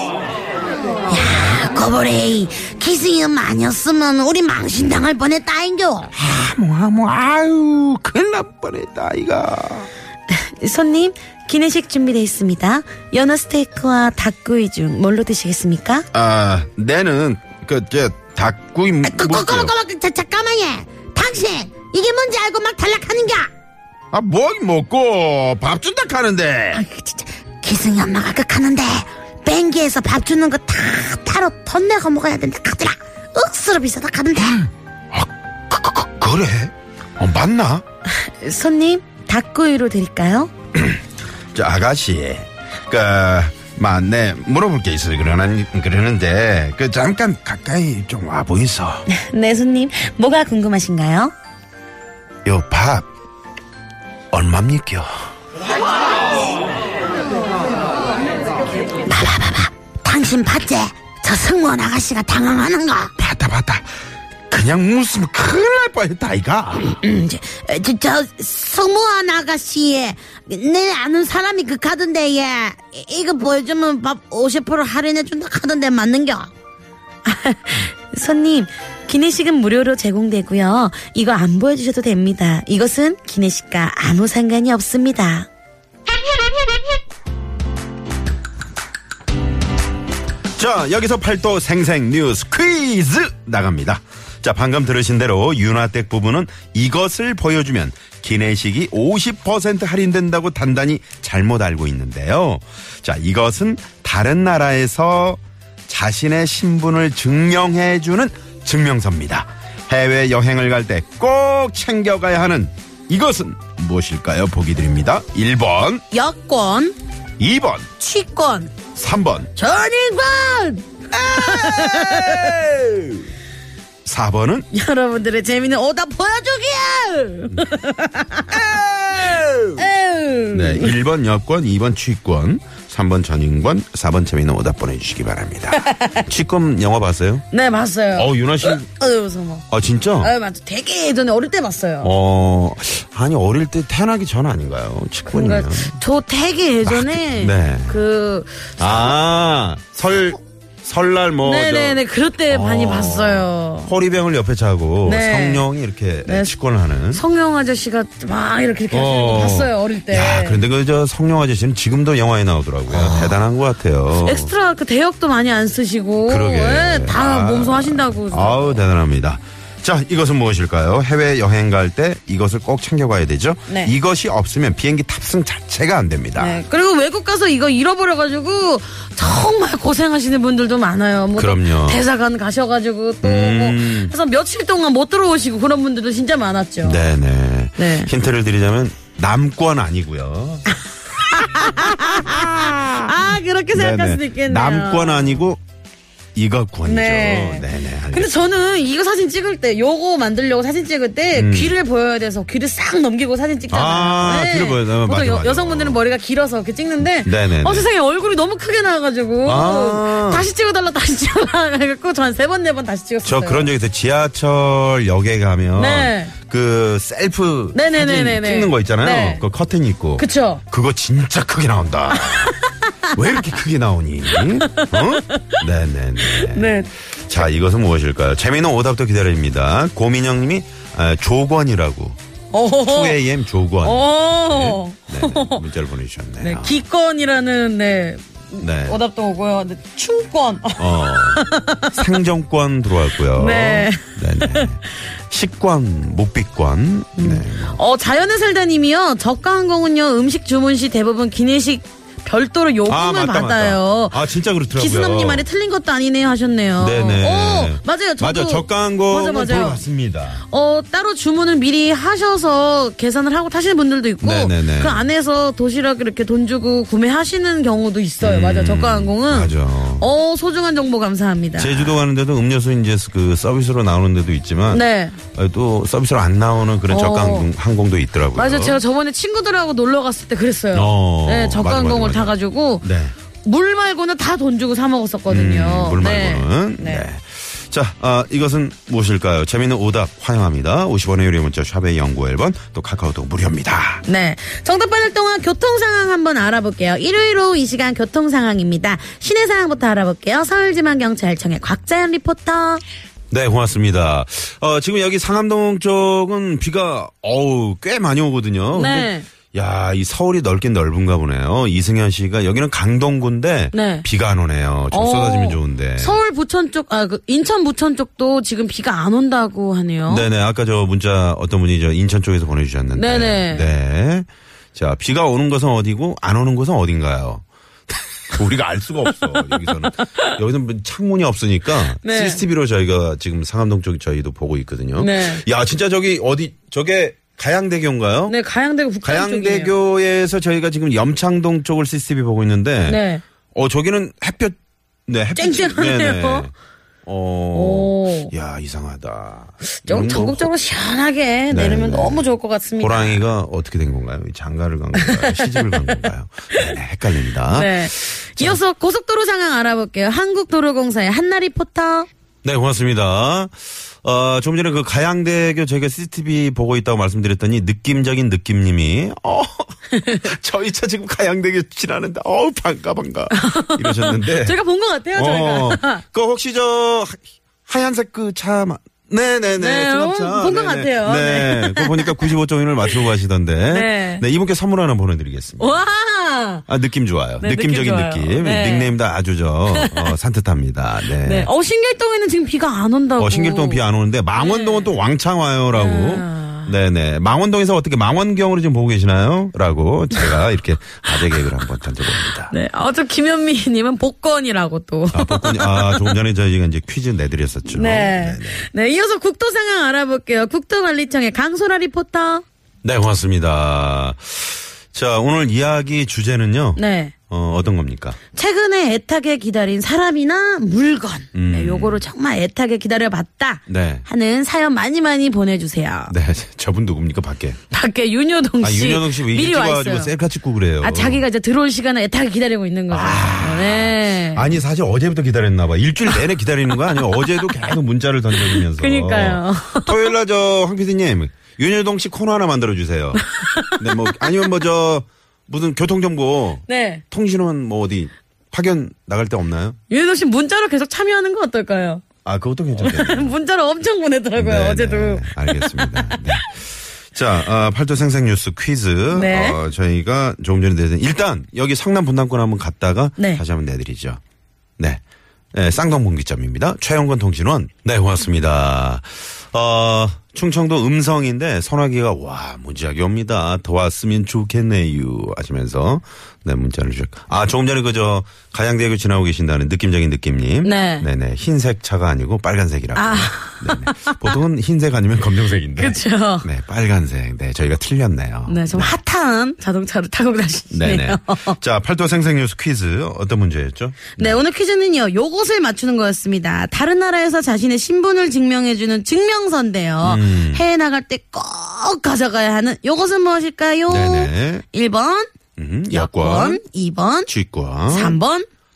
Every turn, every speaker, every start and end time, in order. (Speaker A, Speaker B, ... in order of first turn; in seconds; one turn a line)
Speaker A: 1.1-6.1
Speaker B: 6.1-9.9
Speaker A: 10.3-16.1
Speaker B: 16.1-19.7
Speaker A: 19.0-23.5
Speaker B: 24.1-26.8
Speaker A: 26.7-34.6
Speaker B: 34.5-37.8
Speaker A: 38.1-40.5
Speaker B: 40.7-41.0
Speaker B: 41.5-49.1
Speaker A: 49.1-51.3
Speaker B: 52.5-53.1
Speaker B: 54.3-55.1
Speaker A: 59.0-63.1
Speaker B: 63.2-63.9
Speaker B: 64.5-66.9
Speaker A: 66.9-76.5
Speaker A: 77.2-85.5
Speaker B: 90.6-116.0
Speaker A: 116.1-117.0
Speaker B: 117.4-117.9
Speaker A: 118.0-118.8
Speaker B: 118.9-119.5
Speaker A: 119.6-122.6
Speaker B: 121.1-123.3
Speaker B: 124.0-124.7
Speaker A: 124.7-128.6
Speaker B: 128.5-129.8
Speaker A: 129.8-130.9
Speaker B: 130.5-137.4
Speaker A: 135.8-136.2
Speaker A: 137.5-139.7
Speaker B: 138.2-138.8
Speaker B: 139.7-140.3
Speaker A: 140.2-142.1
Speaker B: 142.0-146.0
Speaker A: 145.3-149.1
Speaker B: 146.8-148.0
Speaker B: 148.8-157.2
Speaker A: 151.4-153.9
Speaker A: 155.1-155.6
Speaker A: 156.2-156.5
Speaker A: 157.1-160.6
Speaker B: 158.9-164.5
Speaker A: 163.0-163.3
Speaker A: 164.2-168.8
Speaker B: 166.3-176.6
Speaker A: 176.4-187.0
Speaker B: 181.4-182.0
Speaker B: 183.2-184.1
Speaker B: 186.8-190.7
Speaker A: 187.8-188.1
Speaker A: 191.2-195.4
Speaker B: 191.3-195.6
Speaker B: 196.3-198.3
Speaker A: 196.9-213.7
Speaker B: 201.3-201.8
Speaker B: 203.7-206.0
Speaker B: 207.2-207.9
Speaker B: 209.4-210.5
Speaker B: 213.2-222.6
Speaker A: 215.8-216.3
Speaker A: 217.7-219.4
Speaker A: 220.2-220.6
Speaker A: 222.2-222.9
Speaker B: 223.1-232.2
Speaker A: 224.6-225.6
Speaker A: 226.2-226.9
Speaker A: 232.5-233.2
Speaker B: 232.8-236.8
Speaker A: 233.8-235.6
Speaker A: 236.4-242.0
Speaker B: 238.6-239.0
Speaker B: 240.8-247.8
Speaker A: 243.4-244.7
Speaker A: 247.2-254.2
Speaker B: 252.9-255.5
Speaker A: 254.7-259.8
Speaker B: 256.8-260.4
Speaker A: 260.5-272.0
Speaker B: 264.2-265.0
Speaker B: 268.2-270.1
Speaker B: 271.6-278.8
Speaker A: 274.7-275.2
Speaker A: 276.9-277.5
Speaker A: 278.4-282.9
Speaker B: 280.7-283.1
Speaker A: 283.4-287.1
Speaker B: 285.3-294.0
Speaker A: 294.1-302.8
Speaker B: 303.3-316.2
Speaker A: 308.7-309.3
Speaker A: 313.7-314.1
Speaker A: 314.9-320.3
Speaker B: 320.1-338.4
Speaker A: 322.9-323.7
Speaker A: 330.0-330.4
Speaker A: 332.0-332.4
Speaker A: 335.0-335.4
Speaker A: 338.3-339.7
Speaker B: 339.0-343.0
Speaker A: 342.9-343.2
Speaker B: 343.5-346.5
Speaker A: 345.4-346.5
Speaker B: 347.1-350.5
Speaker A: 347.5-348.3
Speaker A: 349.7-353.2
Speaker B: 351.5-352.2
Speaker B: 352.8-358.6
Speaker A: 355.0-356.0
Speaker A: 357.5-362.1
Speaker B: 362.4-374.6
Speaker A: 369.9-370.2
Speaker A: 373.3-376.0
Speaker B: 375.1-385.8
Speaker A: 379.6-382.3
Speaker A: 383.7-384.2
Speaker A: 385.6-386.6
Speaker B: 386.7-391.5
Speaker A: 387.4-388.9
Speaker A: 389.7-390.1
Speaker A: 391.2-393.8
Speaker B: 393.2-402.5
Speaker A: 394.4-394.9
Speaker A: 395.7-396.7
Speaker A: 402.5-406.1
Speaker B: 405.1-408.6
Speaker A: 407.7-412.4
Speaker B: 412.8-418.2
Speaker A: 416.8-417.1
Speaker A: 418.4-426.1
Speaker B: 421.3-422.0
Speaker B: 423.7-424.1
Speaker B: 426.1-427.6
Speaker A: 427.7-430.1
Speaker B: 428.6-431.2
Speaker A: 430.8-434.5
Speaker B: 432.9-449.8
Speaker A: 438.4-440.1
Speaker A: 443.3-444.1
Speaker A: 446.7-447.0
Speaker A: 449.9-452.0
Speaker B: 452.2-453.3
Speaker A: 452.8-456.4
Speaker B: 454.4-464.2
Speaker A: 459.1-459.6
Speaker B: 465.5-489.0
Speaker A: 480.6-481.1
Speaker A: 482.9-484.2
Speaker A: 485.8-486.5
Speaker A: 488.5-491.6
Speaker B: 490.7-494.4
Speaker A: 494.2-505.3
Speaker B: 500.0-500.6
Speaker B: 503.9-504.6
Speaker B: 505.6-506.6
Speaker A: 505.9-507.3
Speaker B: 507.3-508.2
Speaker A: 507.9-508.5